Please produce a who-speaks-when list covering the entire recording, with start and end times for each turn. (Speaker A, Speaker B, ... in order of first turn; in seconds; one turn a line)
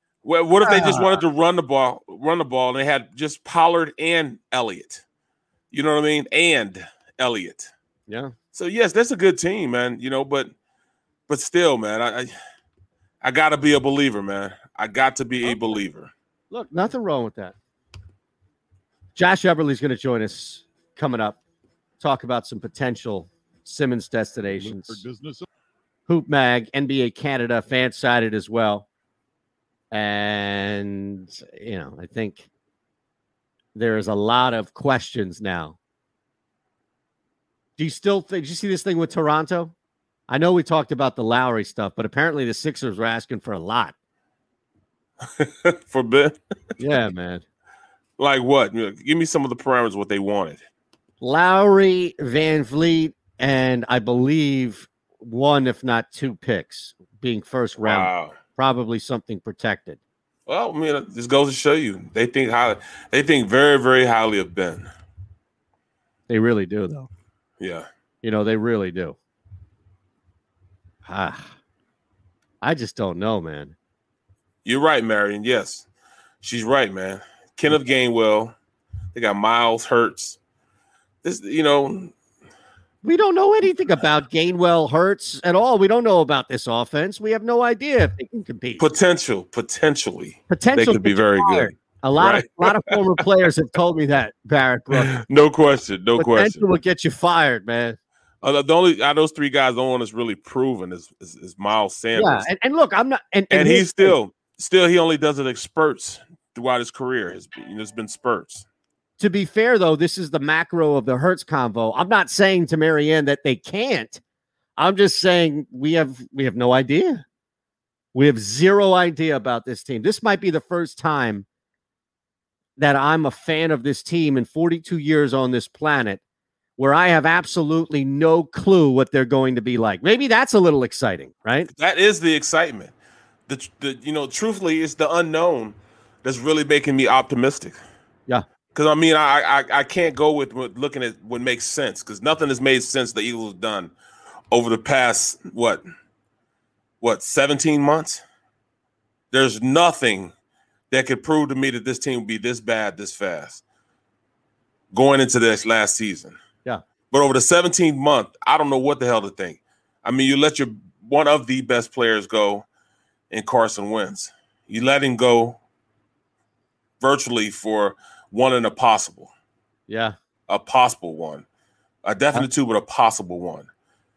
Speaker A: 0.2-5.0
Speaker B: 0.6-1.2
Speaker A: 5.7-7.7
Speaker B: 8.1-8.3
Speaker A: 8.5-10.5
Speaker A: 11.3-12.3
Speaker A: 13.2-16.1
Speaker B: 16.5-17.6
Speaker B: 19.1-21.4
Speaker B: 22.0-25.1
Speaker B: 26.1-28.9
Speaker B: 29.9-32.5
Speaker B: 33.8-35.8
Speaker B: 37.8-39.7
Speaker B: 40.3-43.9
Speaker A: 45.2-46.4
Speaker B: 46.8-47.5
Speaker A: 48.2-50.6
Speaker B: 51.2-60.0
Speaker A: 57.8-58.4
Speaker A: 60.5-64.9
Speaker B: 66.3-67.1
Speaker A: 67.6-67.9
Speaker B: 68.2-69.2
Speaker B: 71.1-71.5
Speaker B: 72.6-73.8
Speaker A: 74.7-75.9
Speaker A: 76.4-78.5
Speaker A: 79.1-80.4
Speaker A: 81.2-82.1
Speaker B: 83.0-88.9
Speaker A: 88.8-93.0
Speaker B: 90.5-95.2
Speaker A: 94.9-96.6
Speaker B: 96.2-98.0
Speaker A: 98.4-102.5
Speaker B: 102.2-104.2
Speaker A: 103.5-108.7
Speaker B: 109.2-114.2
Speaker B: 114.8-117.2
Speaker B: 118.1-121.5
Speaker B: 122.8-126.2
Speaker B: 126.8-131.7
Speaker A: 131.7-132.9
Speaker A: 133.5-137.8
Speaker A: 138.7-143.9
Speaker A: 144.5-145.8
Speaker A: 147.0-148.2
Speaker A: 149.3-150.3
Speaker A: 150.9-153.6
Speaker A: 154.9-156.4
Speaker A: 157.1-162.7
Speaker A: 163.3-165.6
Speaker A: 167.0-169.3
Speaker B: 169.9-170.2
Speaker A: 170.5-171.5
Speaker A: 172.0-173.7